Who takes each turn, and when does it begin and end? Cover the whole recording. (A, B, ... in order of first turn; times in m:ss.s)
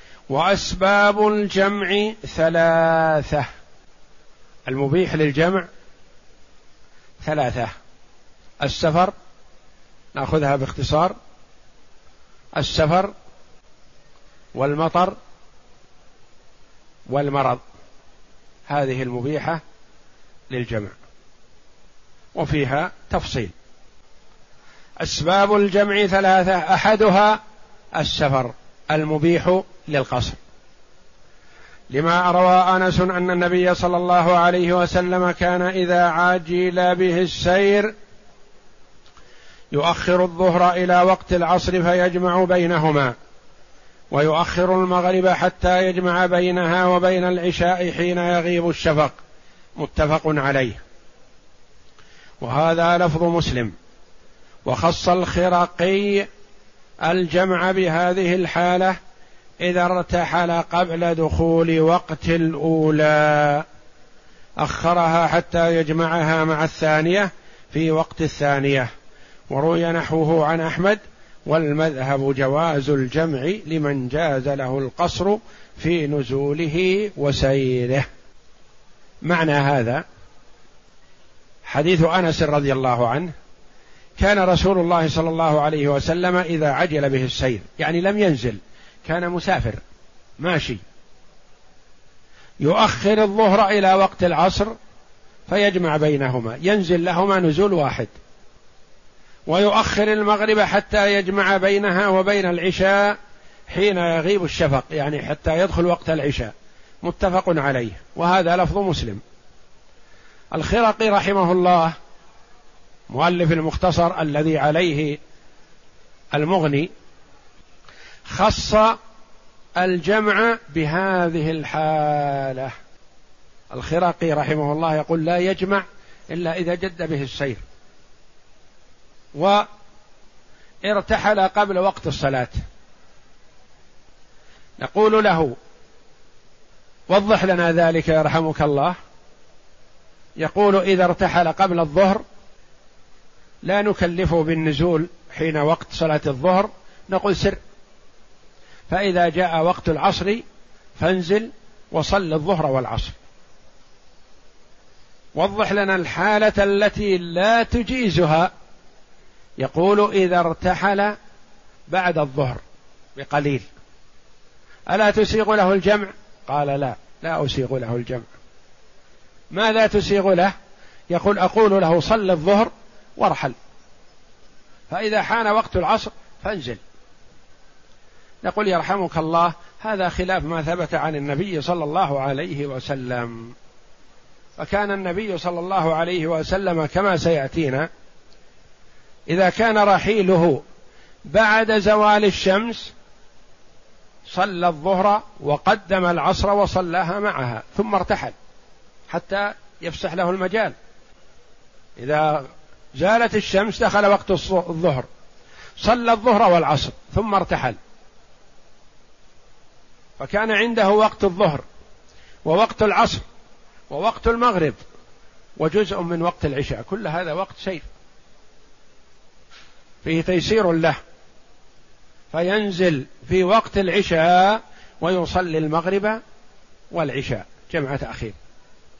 0:00.3-0:03.5 A
0:04.7-0:05.6 A
0:07.2-0:07.7 A
0:08.6-0:09.1 A
0:10.1-0:11.1 A
0:12.6-0:13.1 A
0:14.5-0:15.2 A
0:17.1-0:17.6 A
0:18.7-0:19.6 A
0:20.5-0:20.9 A
0:22.3-0:23.5 A
0:25.0-0:27.4 A
0:28.0-0:30.4 A
0:31.9-0:37.9 A
0:39.7-0:43.1 A
0:44.1-0:49.2 A
0:49.8-0:50.8 A
0:52.4-0:53.7 A
0:54.6-0:56.3 A
0:57.0-0:59.0 A
0:59.6-1:03.6 A
1:04.6-1:08.9 A
1:09.5-1:18.1 A
1:19.2-1:20.0 A
1:21.6-1:23.3 A
1:24.2-1:29.8 A
1:30.4-1:30.8 A
1:32.6-1:34.7 A
1:35.5-1:38.1 A
1:39.5-1:43.2 A
1:43.7-1:46.5 A
1:47.0-1:49.2 A
1:50.5-1:51.9 A
1:53.1-1:55.2 A
1:56.3-1:56.9 A
1:58.3-1:59.0 A
1:59.8-2:02.7 A
2:03.7-2:07.6 A
2:09.3-2:09.6 A
2:10.8-2:12.6 A
2:14.8-2:15.5 A
2:17.1-2:19.0 A
2:20.4-2:22.2 A
2:23.6-2:27.6 A
2:28.9-2:30.4 A
2:31.0-2:33.1 A
2:35.4-2:38.5 A
2:39.6-2:41.1 A
2:41.9-2:42.6 A
2:43.2-2:43.6 A
2:44.9-2:48.3 A
2:49.5-2:50.5 A
2:51.1-2:53.6 A
2:54.9-2:56.8 A
2:58.4-3:03.5 A
3:04.6-3:07.9 A
3:09.3-3:10.6 A
3:11.3-3:12.9 A
3:14.3-3:18.3 A
3:19.1-3:20.7 A
3:22.0-3:25.0 A
3:25.8-3:27.8 A
3:30.2-3:31.6 A
3:32.4-3:33.2 A
3:33.9-3:34.8 A
3:35.6-3:37.9 A
3:40.0-3:41.0 A
3:42.3-3:46.2 A
3:46.9-3:48.4 A